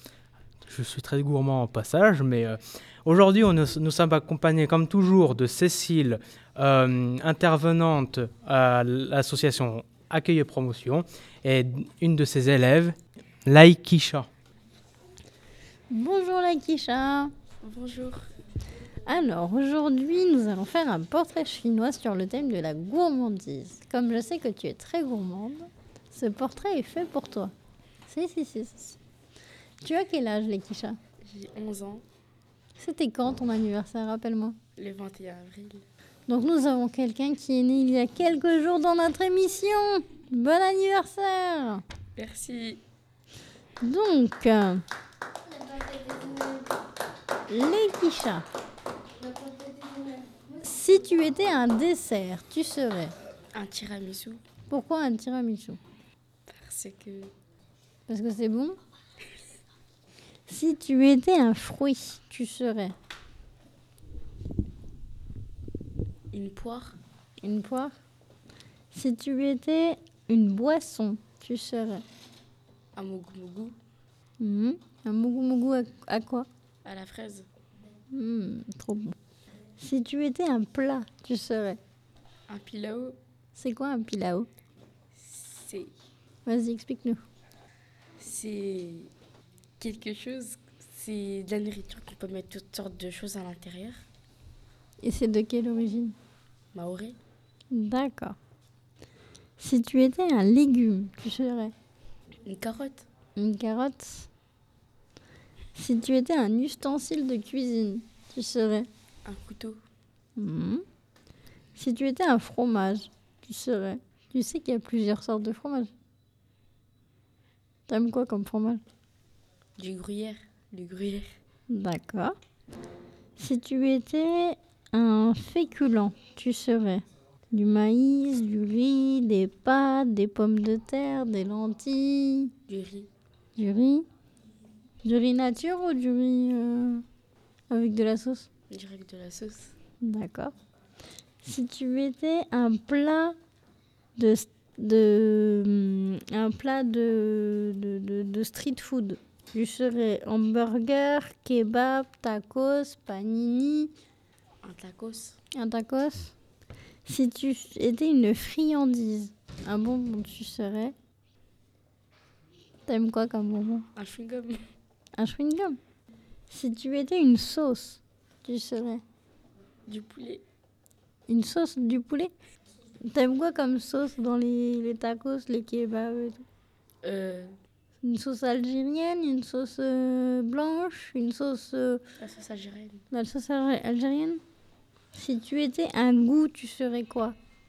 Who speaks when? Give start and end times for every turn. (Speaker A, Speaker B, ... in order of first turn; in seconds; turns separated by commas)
Speaker A: 0.7-14.3, Speaker B: 15.9-17.3, Speaker C: 17.6-18.3, Speaker B: 19.1-27.5, Speaker B: 28.1-29.0, Speaker B: 29.8-31.0, Speaker C: 31.2-32.0, Speaker B: 32.8-34.6, Speaker C: 34.8-35.8, Speaker B: 36.3-41.8, Speaker C: 42.1-42.8, Speaker B: 43.8-44.8, Speaker B: 47.5-48.4, Speaker B: 50.6-53.1, Speaker C: 53.5-54.4, Speaker B: 54.7-55.8, Speaker C: 56.5-57.3, Speaker B: 58.1-58.8, Speaker B: 60.5-63.0, Speaker C: 66.3-67.0, Speaker B: 67.4-68.0, Speaker B: 68.9-72.0, Speaker C: 73.0-73.7, Speaker B: 74.4-76.5, Speaker C: 76.8-77.5, Speaker B: 78.1-79.2, Speaker B: 79.8-81.8, Speaker C: 82.5-83.2, Speaker B: 83.5-84.5, Speaker C: 85.1-85.9, Speaker B: 86.5-87.2, Speaker C: 88.2-89.1, Speaker C: 89.8-94.0, Speaker B: 95.0-96.1, Speaker C: 96.7-97.2, Speaker B: 97.7-98.4, Speaker B: 99.6-101.7, Speaker C: 102.5-103.0, Speaker B: 103.4-104.3, Speaker B: 105.7-108.9, Speaker C: 109.2-109.8, Speaker B: 110.4-110.8, Speaker B: 111.7-115.9, Speaker B: 117.9-118.8, Speaker C: 119.8-121.3, Speaker B: 121.7-122.3, Speaker B: 123.4-132.5, Speaker C: 132.7-133.1, Speaker B: 133.6-134.1, Speaker B: 135.0-137.0, Speaker B: 137.7-138.5, Speaker C: 138.7-139.7, Speaker B: 140.0-140.5, Speaker B: 141.4-143.3, Speaker B: 144.2-153.9, Speaker C: 154.6-155.4, Speaker B: 155.5-156.3, Speaker B: 157.0-160.9, Speaker B: 162.8-163.8, Speaker C: 163.9-164.6, Speaker B: 165.1-165.8, Speaker B: 166.5-169.0, Speaker C: 169.9-170.4, Speaker B: 171.3-172.3, Speaker B: 173.0-176.4, Speaker C: 177.0-177.5, Speaker B: 178.0-182.0, Speaker C: 182.2-183.0, Speaker B: 183.1-184.4, Speaker B: 185.1-187.4